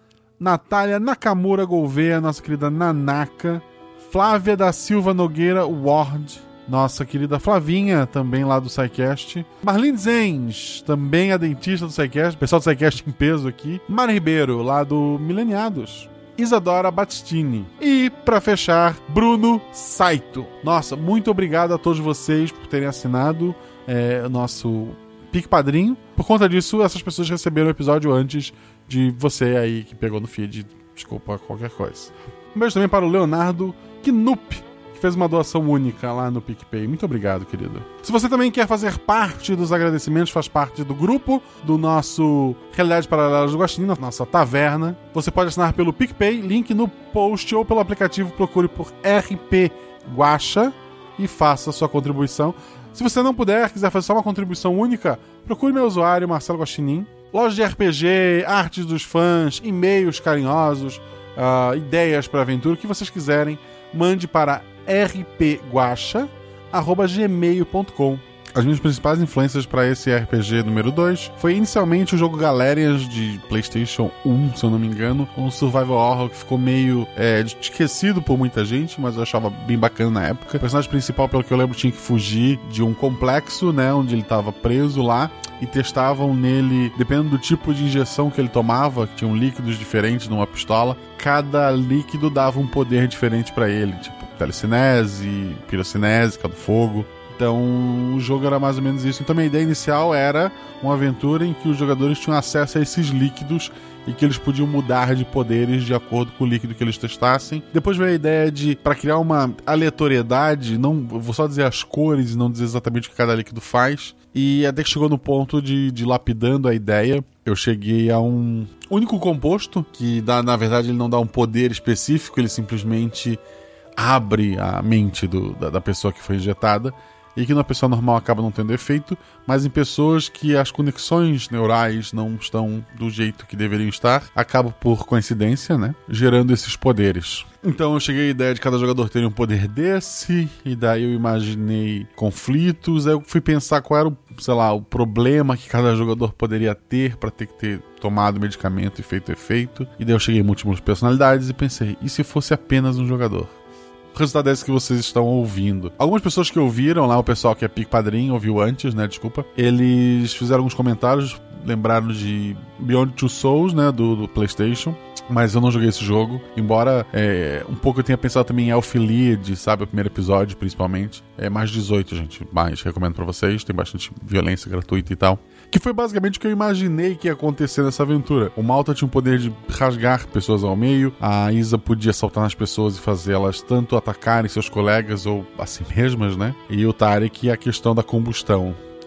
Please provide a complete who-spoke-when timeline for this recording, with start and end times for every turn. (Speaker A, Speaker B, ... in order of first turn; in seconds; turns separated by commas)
Speaker A: 0.4-123.4, Speaker A: 124.0-153.5, Speaker A: 154.1-188.8